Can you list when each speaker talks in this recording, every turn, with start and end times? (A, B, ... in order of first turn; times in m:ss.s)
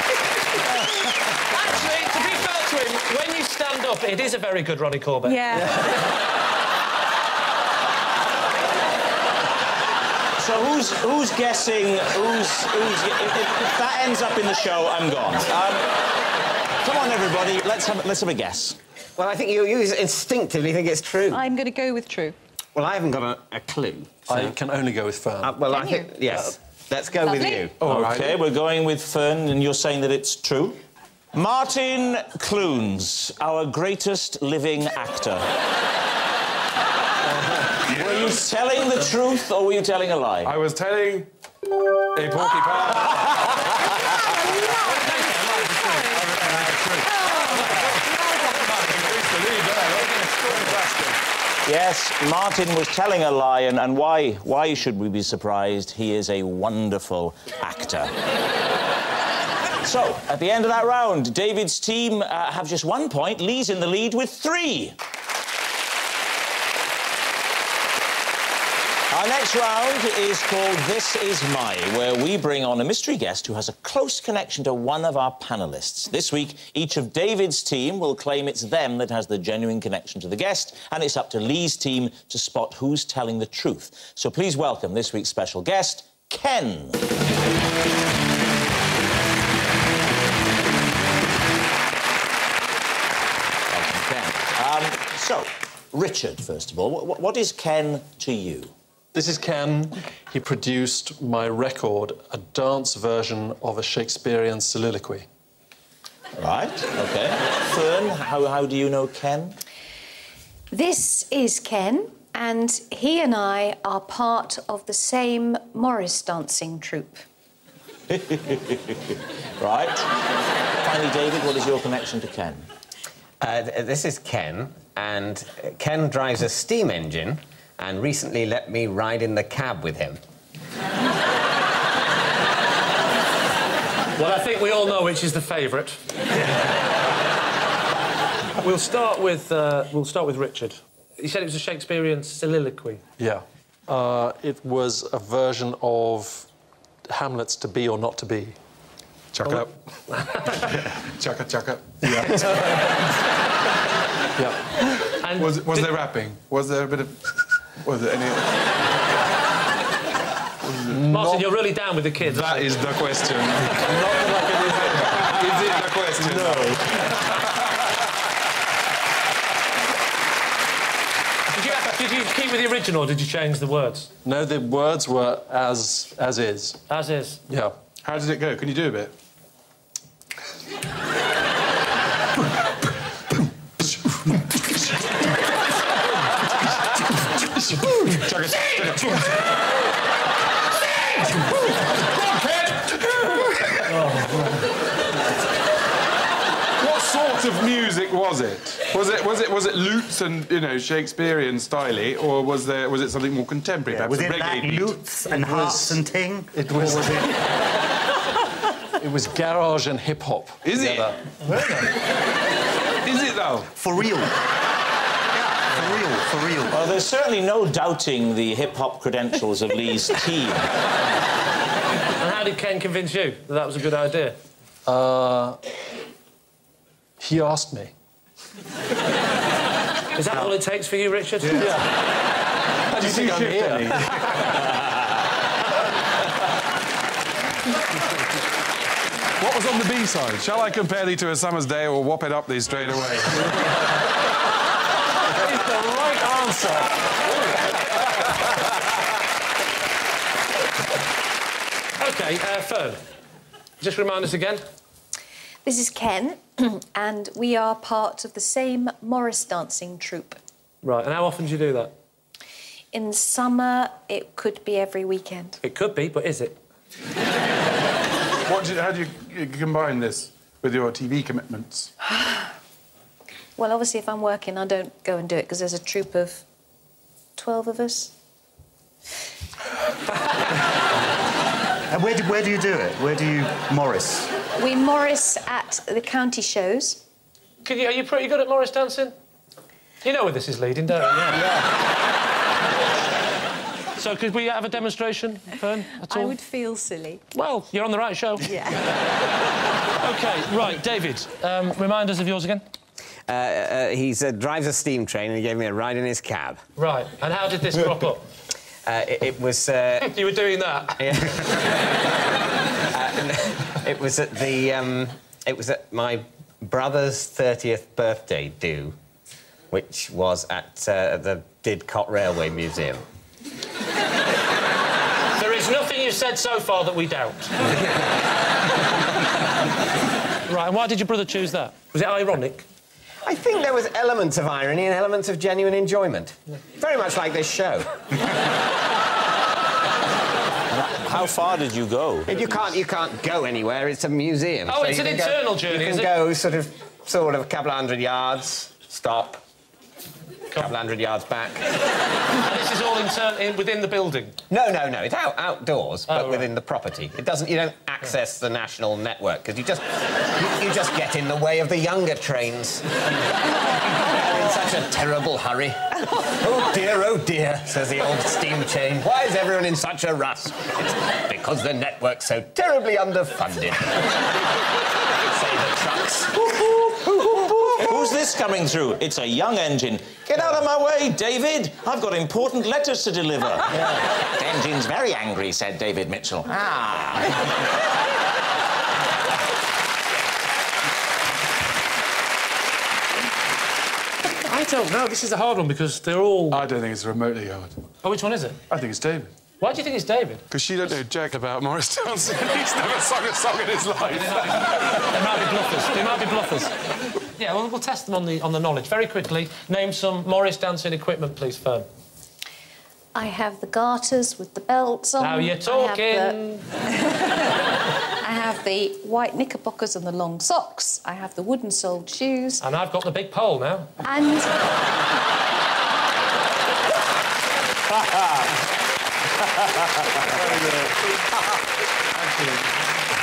0:01.5-0:05.4 A
0:05.2-0:05.8 B
0:10.4-0:16.0 C
0:16.8-0:18.8 C
0:19.2-0:21.4 D
0:21.3-0:22.4 B
0:22.8-0:24.6 D
0:24.3-0:25.6 E
0:25.4-0:27.8 D
0:25.7-0:26.5 B
0:27.2-0:27.7 B
0:27.8-0:28.4 F
0:27.8-0:30.8 C
0:31.3-0:35.5 C
0:37.9-0:40.6 C
0:37.9-0:38.4 F
0:40.4-0:41.3 F
0:42.1-0:43.7 F
0:44.3-0:46.1 B
0:44.8-0:50.8 A
0:46.1-0:47.2 F
0:47.0-0:49.1 B
0:48.9-0:51.1 F
0:51.7-0:58.1 C
0:59.8-1:05.0 C
1:09.1-1:27.1 C
1:33.7-1:38.7 C
1:39.1-1:45.3 E
1:46.4-1:49.6 C
1:50.7-1:57.2 B
1:58.1-2:00.1 C
2:00.8-2:02.7 C
2:03.4-2:10.2 D
2:14.2-2:16.0 A
2:18.6-2:23.0 A
2:23.2-2:26.5 E
2:27.1-2:28.6 E
2:29.3-2:29.7 F
2:30.5-2:32.5 F
2:32.0-2:32.7 E
2:34.4-2:34.6 E
2:35.2-2:36.0 A
2:35.3-2:38.7 F
2:40.7-2:41.0 F
2:40.9-2:41.4 E
2:41.1-2:42.8 A
2:42.2-2:46.8 F
2:43.7-2:47.2 E
2:51.5-2:54.1 A
2:54.2-2:56.8 E
2:56.9-2:57.4 A
2:57.5-2:57.8 E
2:58.0-2:59.1 F
3:03.8-3:04.4 F
3:07.4-3:09.5 F
3:11.3-3:14.1 F
3:16.8-3:25.0 F
3:23.9-3:27.3 G
3:25.4-3:26.0 E
3:26.5-3:27.4 E
3:29.0-3:31.7 E
3:30.6-3:31.2 F
3:33.0-3:33.7 F
3:33.7-3:34.3 G
3:35.3-3:36.8 G
3:36.7-3:40.7 C
3:42.2-3:44.4 A
3:44.9-3:45.6 E
3:47.2-3:47.9 E
3:50.2-3:51.7 A
3:51.6-3:52.0 E
3:52.9-3:54.4 E
3:53.0-3:54.6 F
3:59.4-4:03.5 F
4:05.3-4:08.0 A
4:12.0-4:13.0 A
4:13.8-4:14.6 A
4:15.6-4:20.4 B
4:20.8-4:21.9 A
4:22.9-4:25.6 B
4:25.6-4:26.6 A
4:28.4-4:31.9 F
4:33.6-4:36.4 B
4:37.4-4:38.1 B
4:41.9-4:44.3 G
4:44.6-4:47.0 B
4:47.6-4:49.2 A
4:50.0-4:51.5 A
4:54.0-4:56.4 A
4:56.1-4:57.2 B
4:57.3-4:58.5 A
4:58.4-4:58.9 B
5:00.0-5:02.6 A
5:03.3-5:06.6 D
5:06.8-5:08.3 A
5:08.8-5:10.2 D
5:10.0-5:11.0 A
5:11.0-5:11.9 D
5:12.9-5:19.0 D
5:19.7-5:23.0 D
5:25.4-5:27.8 A
5:30.5-5:32.6 A
5:33.2-5:38.0 D
5:40.7-5:42.6 C
5:42.3-5:49.4 D
5:44.7-5:46.2 A
5:50.6-5:51.7 D
5:52.4-5:54.4 A
5:54.5-6:02.9 D
5:56.1-5:56.5 A
6:04.0-6:14.1 D
6:15.3-6:18.1 D
6:17.8-6:27.6 C
6:34.3-6:36.6 A
6:36.5-6:37.8 F
6:38.0-6:38.6 A
6:38.7-6:39.3 F
6:39.6-6:40.4 A
6:40.5-6:44.8 F
6:44.0-6:46.7 A
6:47.4-6:51.9 A
6:53.2-6:57.6 B
6:55.2-6:56.7 A
6:58.2-7:02.6 B
7:02.6-7:03.9 A
7:04.0-7:04.6 B
7:07.9-7:08.5 C
7:09.5-7:10.2 C
7:10.3-7:11.1 F
7:12.2-7:12.6 F